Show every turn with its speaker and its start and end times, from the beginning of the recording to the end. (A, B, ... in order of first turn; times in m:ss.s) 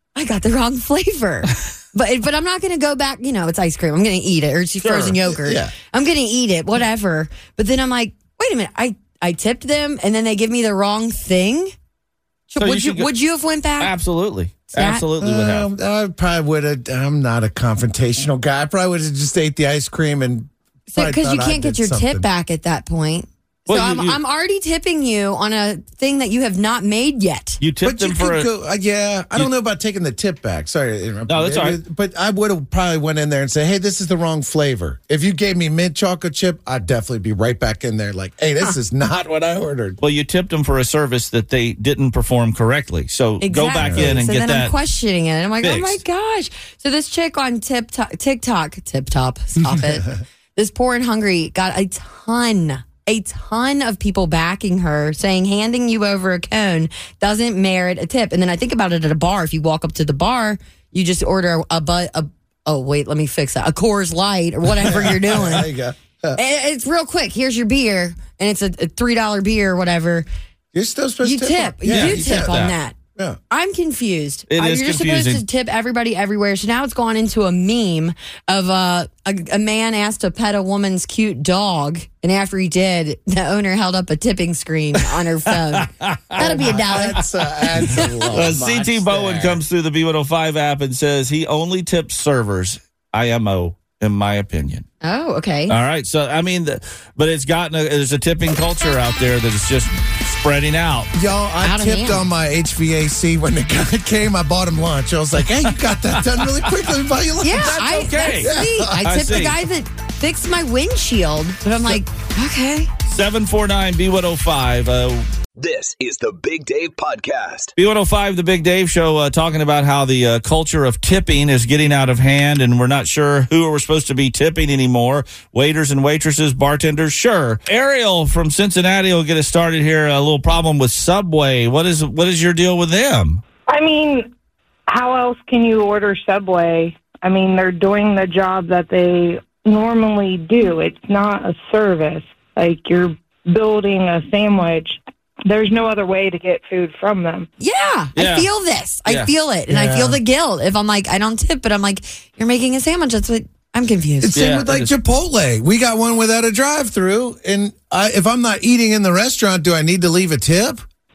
0:00.2-0:11.7 A
0:04.8-0:05.2 B
0:05.2-0:05.7 C
0:12.5-0:13.9 A
0:12.6-0:13.1 B
0:13.8-0:15.7 B
0:14.7-0:15.0 A
0:15.2-0:22.3 C
0:20.9-0:27.6 A
0:23.7-0:24.2 B
0:27.6-0:28.5 B
0:27.8-0:40.0 C
0:31.3-0:31.8 B
0:40.0-0:44.7 B
0:43.4-1:05.7 A
0:43.8-0:44.2 C
0:45.6-0:46.0 B
1:04.8-1:06.4 C
1:06.4-1:10.3 A
1:10.7-1:12.6 C
1:11.2-1:13.0 A
1:11.8-1:12.8 B
1:13.5-1:27.2 A
1:14.5-1:15.4 B
1:25.8-1:26.9 B
1:26.4-1:29.6 C
1:28.3-1:34.8 B
1:35.0-1:35.8 A
1:35.7-1:41.1 B
1:41.2-1:49.3 C
1:41.6-1:42.2 A
1:47.4-1:52.9 A
1:47.5-1:49.6 B
1:53.1-1:55.3 B
1:55.6-1:57.7 D
1:57.8-2:13.4 B
2:13.7-2:14.2 E
2:14.9-2:25.0 E
2:25.5-2:27.5 E
2:27.6-2:34.3 A
2:28.2-2:28.5 B
2:29.1-2:29.3 B
2:29.7-2:30.2 C
2:34.2-2:40.8 C
2:34.3-2:34.9 B